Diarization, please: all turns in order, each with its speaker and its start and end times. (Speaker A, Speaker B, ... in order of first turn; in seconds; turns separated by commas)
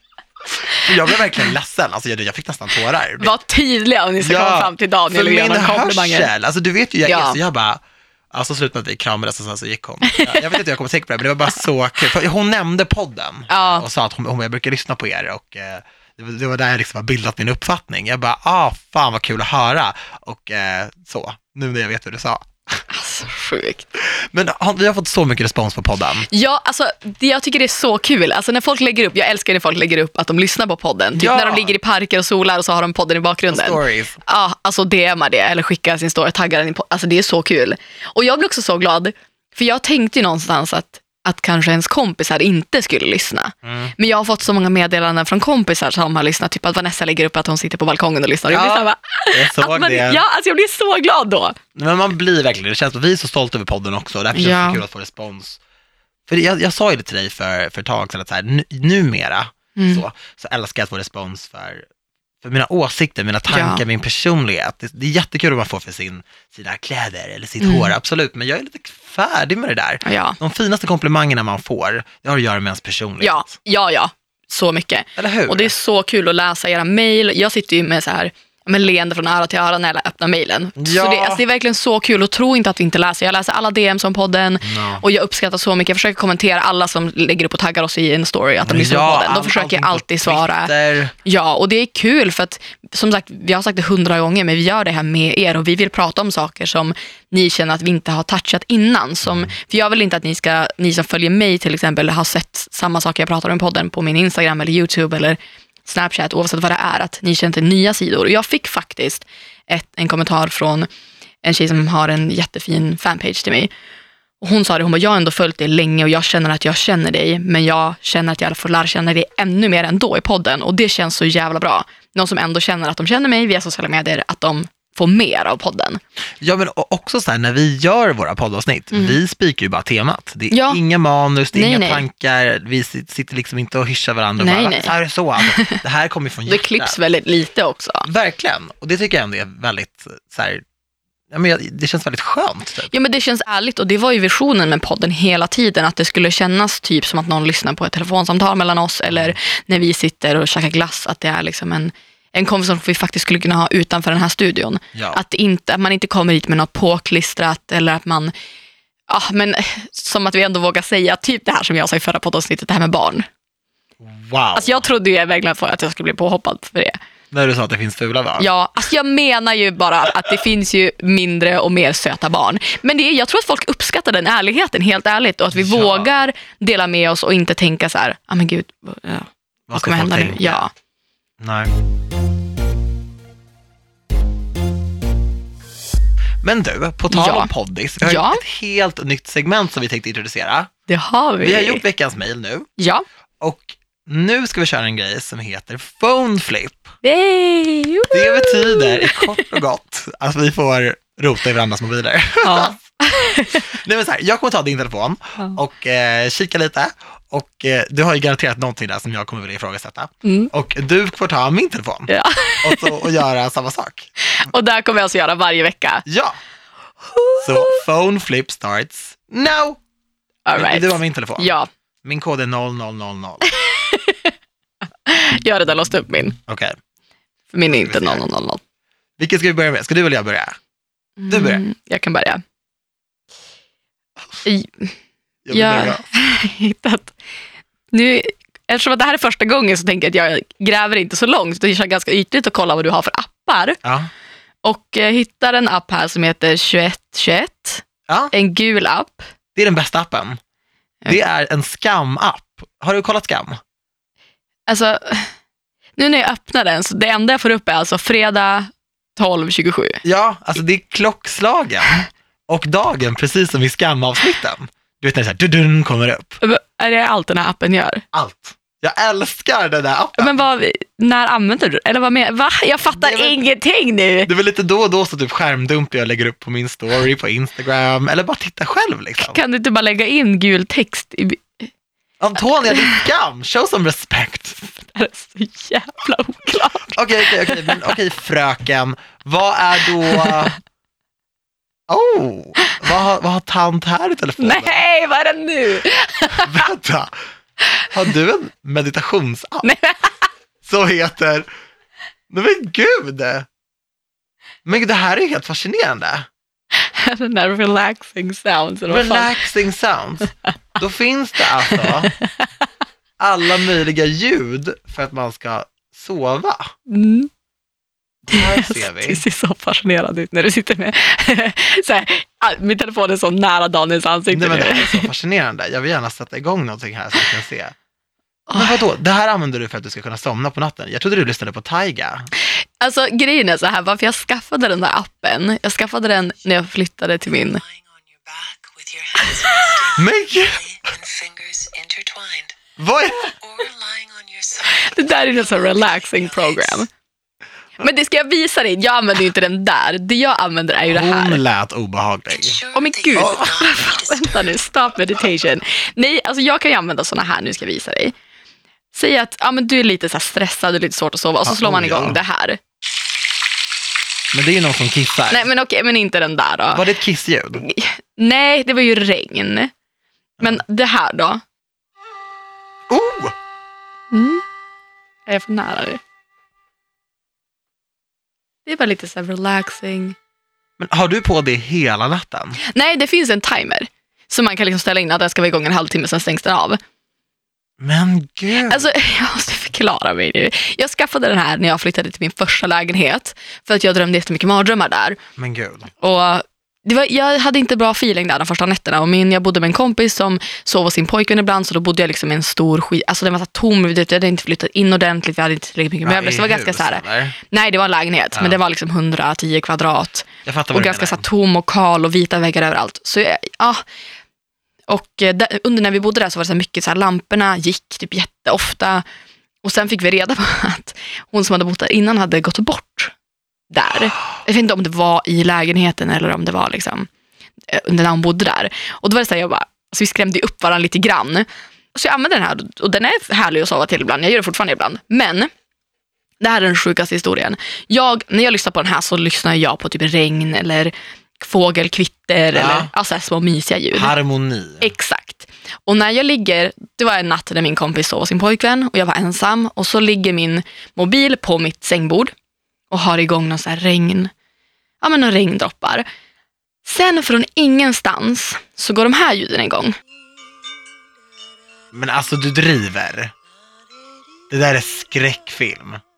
Speaker A: 0.6-3.3, Speaker B: 3.2-6.3, Speaker A: 4.2-7.8, Speaker B: 7.0-7.4, Speaker A: 8.3-22.8, Speaker B: 10.1-10.6, Speaker B: 13.5-13.8, Speaker B: 22.9-23.8, Speaker A: 24.0-26.3, Speaker B: 26.3-51.6, Speaker A: 31.1-31.8, Speaker A: 33.5-34.2, Speaker A: 43.6-43.9, Speaker A: 48.5-50.2, Speaker A: 51.7-55.6, Speaker B: 54.3-54.8, Speaker A: 56.3-61.9, Speaker B: 59.8-60.0, Speaker A: 62.4-73.5, Speaker B: 63.5-63.8, Speaker B: 67.6-67.9, Speaker B: 70.0-70.4, Speaker B: 73.2-90.7, Speaker A: 75.2-75.7, Speaker A: 80.8-81.4, Speaker A: 84.6-85.0, Speaker A: 88.6-91.1, Speaker B: 91.2-110.9, Speaker A: 99.2-99.5, Speaker B: 111.4-113.7, Speaker B: 114.4-126.0, Speaker A: 126.4-137.0, Speaker B: 130.5-130.8, Speaker B: 131.5-132.0, Speaker B: 134.4-135.8, Speaker B: 136.5-138.1, Speaker A: 138.0-140.6, Speaker A: 141.3-142.9, Speaker B: 142.9-158.3, Speaker A: 149.1-149.3, Speaker A: 154.9-155.2, Speaker B: 159.1-163.3, Speaker A: 164.0-164.8, Speaker B: 164.5-167.0, Speaker A: 167.3-168.5, Speaker B: 168.4-180.7, Speaker A: 175.5-176.1, Speaker A: 179.7-180.7, Speaker A: 181.4-181.7, Speaker A: 186.4-190.7, Speaker B: 187.1-188.4, Speaker B: 190.9-191.8, Speaker A: 191.4-192.7, Speaker B: 192.8-193.0, Speaker A: 193.4-196.9, Speaker B: 197.0-199.6, Speaker A: 198.1-202.8, Speaker B: 202.4-203.7, Speaker A: 203.6-214.1, Speaker B: 210.2-210.5, Speaker B: 212.1-213.0, Speaker B: 214.3-216.0, Speaker A: 216.1-216.4, Speaker B: 217.0-217.8, Speaker A: 217.4-219.8, Speaker B: 220.4-221.7, Speaker A: 220.5-221.5, Speaker A: 222.0-223.5, Speaker B: 223.4-224.3, Speaker B: 225.0-226.4, Speaker A: 226.4-226.8, Speaker B: 227.5-228.6, Speaker A: 227.7-228.2, Speaker A: 229.2-230.6, Speaker B: 231.2-232.4, Speaker A: 231.3-231.6, Speaker B: 234.4-234.9, Speaker A: 235.4-236.0, Speaker B: 235.5-237.1, Speaker B: 237.9-243.8, Speaker A: 243.8-244.1, Speaker B: 244.6-249.3, Speaker A: 248.1-248.3, Speaker A: 249.5-250.4, Speaker A: 251.1-253.6, Speaker B: 254.7-255.3, Speaker B: 256.0-260.0, Speaker A: 260.0-266.4, Speaker B: 266.4-268.0, Speaker A: 268.1-270.4, Speaker B: 270.2-274.3, Speaker A: 272.9-273.4, Speaker A: 274.2-279.4, Speaker B: 279.2-281.7, Speaker A: 282.2-284.7, Speaker B: 282.6-283.0, Speaker B: 284.7-287.9, Speaker A: 286.9-290.6, Speaker B: 290.0-290.5, Speaker A: 291.9-294.8, Speaker B: 294.4-296.7, Speaker A: 296.4-297.1, Speaker A: 297.9-299.7, Speaker B: 299.6-300.2, Speaker A: 300.6-301.5, Speaker A: 302.3-303.5, Speaker A: 304.6-306.3, Speaker B: 306.7-309.4, Speaker A: 308.9-312.1, Speaker B: 311.7-312.6, Speaker A: 313.2-316.7, Speaker B: 316.9-317.3, Speaker A: 318.2-319.2, Speaker B: 318.3-325.1, Speaker A: 324.3-327.7, Speaker B: 328.5-328.8, Speaker A: 328.5-332.3, Speaker B: 332.8-337.6, Speaker C: 337.3-342.6, Speaker A: 340.0-340.6, Speaker A: 342.8-343.3, Speaker C: 343.2-346.9, Speaker B: 344.7-346.9, Speaker B: 347.8-351.4, Speaker A: 350.9-352.6, Speaker C: 352.3-354.6, Speaker B: 352.7-358.1, Speaker A: 353.1-353.5, Speaker B: 358.9-362.6, Speaker A: 361.4-362.2, Speaker A: 364.3-365.5, Speaker B: 365.3-366.9, Speaker A: 366.7-367.6, Speaker B: 367.6-369.7, Speaker B: 370.4-371.4, Speaker A: 372.9-373.3, Speaker B: 374.1-374.4, Speaker B: 375.2-376.0, Speaker B: 378.6-380.1, Speaker A: 380.8-382.6, Speaker B: 382.6-386.8, Speaker A: 387.8-388.9, Speaker B: 388.6-395.2, Speaker A: 395.4-395.9, Speaker B: 396.0-413.8, Speaker A: 406.0-407.4, Speaker A: 410.4-411.2, Speaker B: 414.9-419.0, Speaker B: 419.6-423.1, Speaker B: 423.7-427.1, Speaker B: 427.7-435.5, Speaker B: 436.4-444.1, Speaker A: 442.5-442.9, Speaker A: 443.9-444.9, Speaker B: 444.8-452.3, Speaker B: 452.9-454.3, Speaker B: 455.0-456.1, Speaker B: 456.8-460.0, Speaker A: 461.9-463.3, Speaker A: 464.5-466.0